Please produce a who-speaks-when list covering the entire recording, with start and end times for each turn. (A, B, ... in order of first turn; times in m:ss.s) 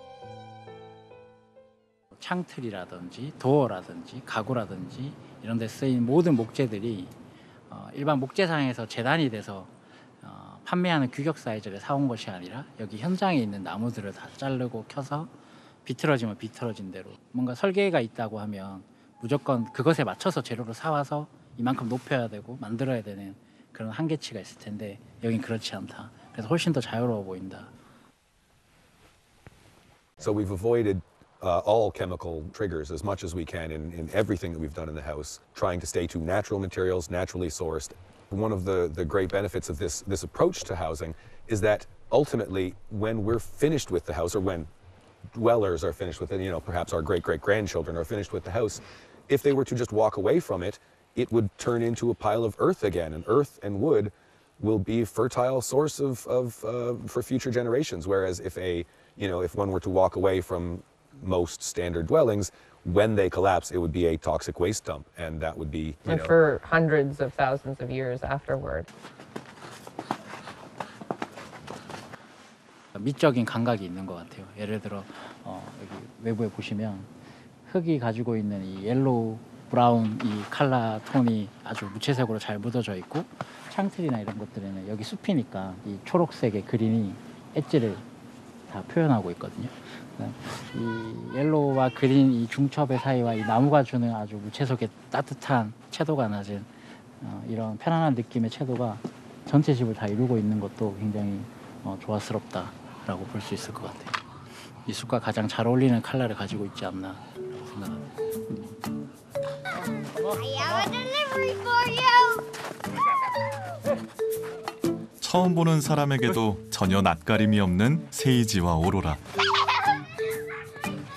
0:02.2-0:07.1 A
0:07.7-0:15.3 A
0:15.8-0:27.7 A
0:30.2-0:44.7 B
0:45.3-1:06.3 B
1:06.0-1:08.9 C
1:12.9-1:17.1 A
1:17.6-1:28.0 A
1:28.7-1:36.7 A
1:37.2-1:44.1 A
1:44.8-1:48.1 A
1:49.7-1:52.4 D
1:55.2-1:59.2 E